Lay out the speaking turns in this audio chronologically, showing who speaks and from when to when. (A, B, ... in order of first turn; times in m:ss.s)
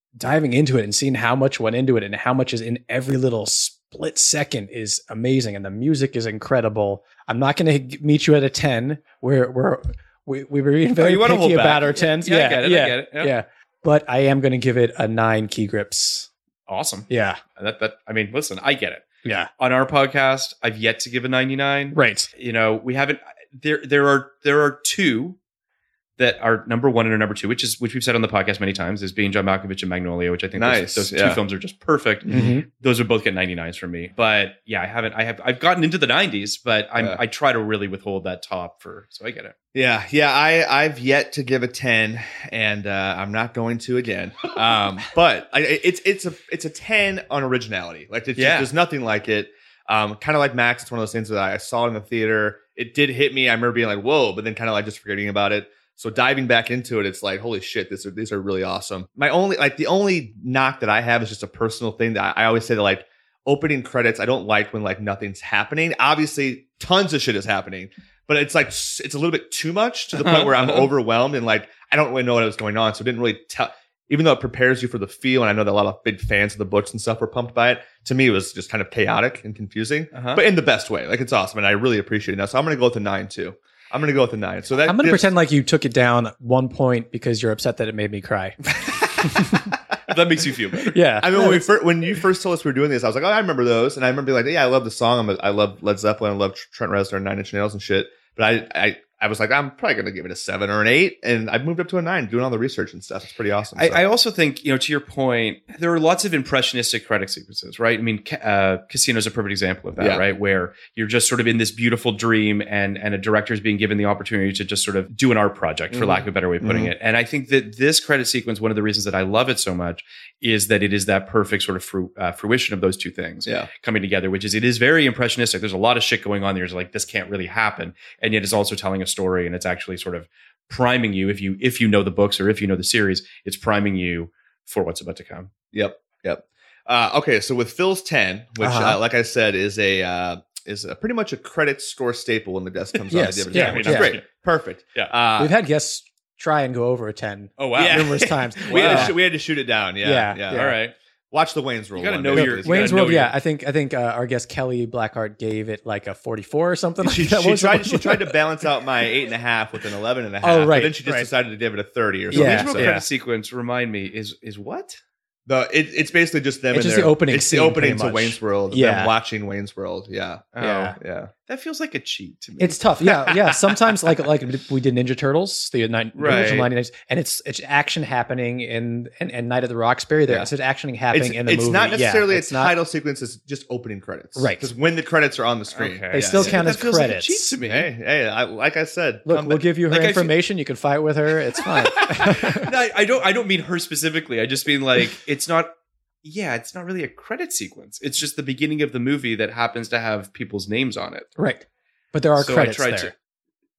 0:00.2-0:16.3 A
0:11.0-0:12.0 B
0:12.2-0:13.3 C
0:16.7-0:19.0 C
0:17.1-0:17.4 A
0:19.2-0:19.5 A
0:19.6-0:25.4 C
0:21.9-0:22.3 A
0:26.2-0:39.5 C
0:30.5-0:31.4 B
0:32.3-0:32.6 A
0:39.7-1:25.3 B
0:48.3-0:48.7 C
1:10.1-1:10.9 C
1:20.1-1:20.4 C
1:24.8-1:28.6 A
1:29.2-1:29.7 A
1:30.0-1:31.0 C
1:30.8-1:31.7 A
1:31.2-1:44.0 B
1:43.8-2:15.5 C
1:50.0-1:50.2 B
1:55.9-1:56.9 B
2:15.7-2:25.5 B
2:18.6-2:19.0 A
2:23.1-2:24.2 A
2:23.5-2:24.2 C
2:25.4-2:29.2 A
2:27.6-2:29.2 C
2:27.7-2:30.7 B
2:30.0-2:30.8 A
2:30.5-2:30.9 C
2:31.3-2:33.0 B
2:32.0-2:33.3 C
2:32.3-2:38.4 A
2:37.0-2:43.0 B
2:40.4-2:41.3 A
2:42.3-2:43.0 A
2:42.3-2:45.0 C
2:45.5-2:51.3 B
2:46.7-2:49.1 A
2:50.5-2:53.4 C
2:50.6-2:51.0 A
2:52.6-3:02.7 A
2:56.2-2:56.7 C
3:01.1-3:06.7 B
3:04.4-3:04.7 A
3:05.7-3:07.9 C
3:06.1-3:07.5 A
3:07.6-3:09.6 B
3:09.2-3:12.7 A
3:09.9-3:10.3 C
3:11.6-3:21.3 C
3:21.4-3:23.1 A
3:22.4-3:23.1 C